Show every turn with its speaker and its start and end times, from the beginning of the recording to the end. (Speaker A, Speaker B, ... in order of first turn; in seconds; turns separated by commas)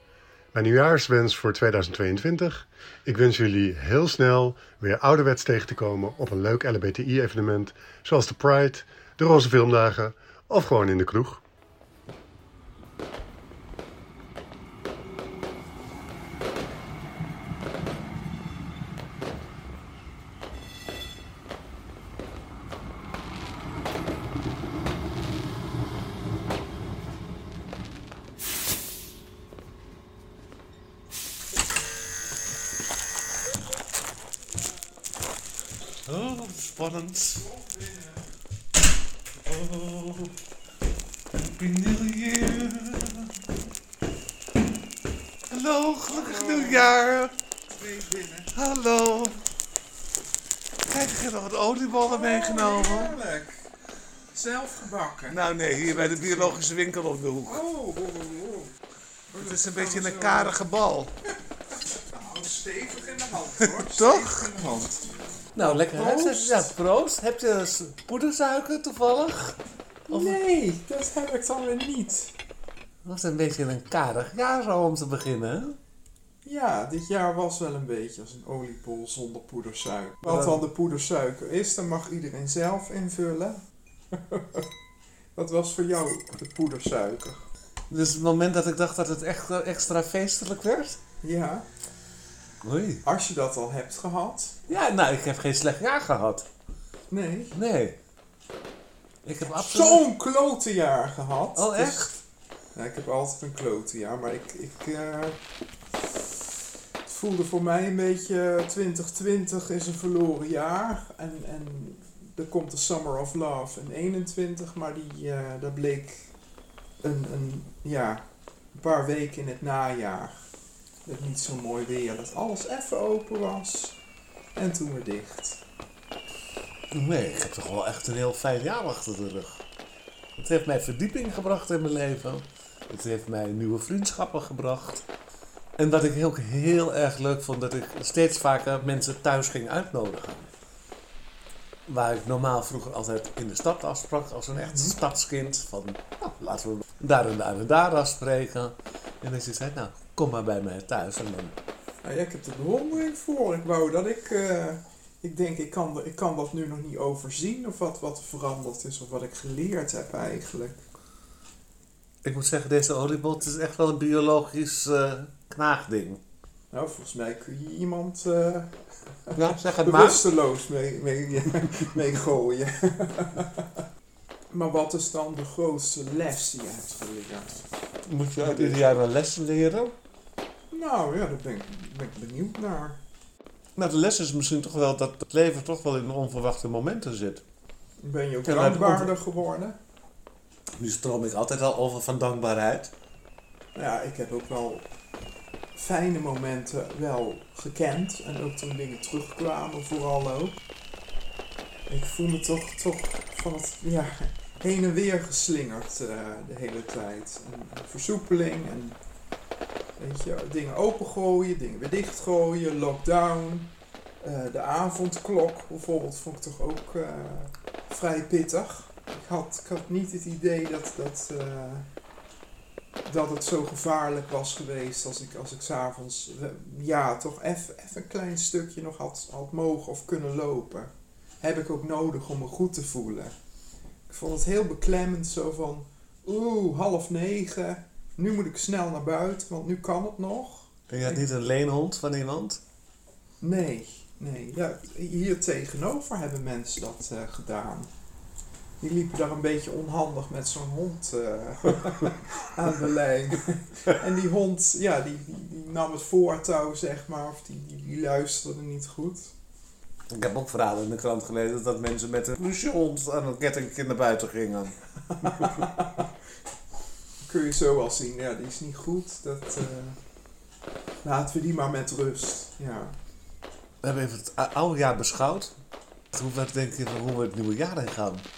Speaker A: 0.5-11.4, Speaker B: 36.0-37.4, Speaker C: 37.4-38.2, Speaker B: 39.4-40.4, Speaker B: 41.3-43.3, Speaker B: 45.5-47.3, Speaker C: 46.1-47.0, Speaker C: 47.7-48.5, Speaker B: 48.5-49.4, Speaker B: 50.9-53.1, Speaker C: 52.0-53.7, Speaker C: 54.3-56.6, Speaker B: 55.3-57.6, Speaker C: 57.5-58.7, Speaker C: 59.3-60.7, Speaker B: 59.3-61.1, Speaker C: 62.1-65.0, Speaker B: 63.6-64.5, Speaker B: 65.5-69.6, Speaker C: 65.6-66.7, Speaker C: 70.1-72.3, Speaker B: 70.1-70.4, Speaker B: 73.0-75.8, Speaker C: 76.4-83.6, Speaker B: 80.2-80.6, Speaker C: 84.1-84.7, Speaker C: 85.3-87.5, Speaker B: 87.9-91.0, Speaker C: 91.2-91.7, Speaker B: 92.6-93.0, Speaker C: 93.0-94.6, Speaker B: 94.7-96.5, Speaker C: 97.1-97.5, Speaker B: 97.5-98.0, Speaker B: 99.2-100.0, Speaker C: 99.6-102.2, Speaker B: 101.5-102.1, Speaker C: 102.7-105.4, Speaker C: 107.0-116.3, Speaker C: 117.0-120.5, Speaker C: 121.0-124.0, Speaker C: 124.5-125.6, Speaker B: 126.9-129.6, Speaker B: 130.4-135.0, Speaker B: 135.8-140.5, Speaker B: 141.8-151.6, Speaker C: 144.5-145.0, Speaker C: 152.0-160.8, Speaker B: 162.2-166.2, Speaker C: 166.7-173.7, Speaker B: 169.3-170.2, Speaker C: 174.5-177.6, Speaker B: 178.1-179.9, Speaker C: 178.4-178.8, Speaker C: 180.7-183.0, Speaker B: 183.8-187.4, Speaker C: 188.0-189.8, Speaker B: 188.4-189.1, Speaker B: 190.8-192.9, Speaker C: 193.7-194.8, Speaker C: 195.8-200.6, Speaker C: 201.9-209.0, Speaker C: 210.0-213.7, Speaker C: 214.2-221.9, Speaker C: 223.0-233.3, Speaker C: 234.1-241.2, Speaker B: 240.9-242.6, Speaker C: 243.4-247.9, Speaker C: 248.8-259.3, Speaker B: 260.1-265.6, Speaker C: 265.2-266.0, Speaker C: 267.2-270.0, Speaker C: 271.0-272.9, Speaker B: 273.8-275.5, Speaker B: 276.1-278.3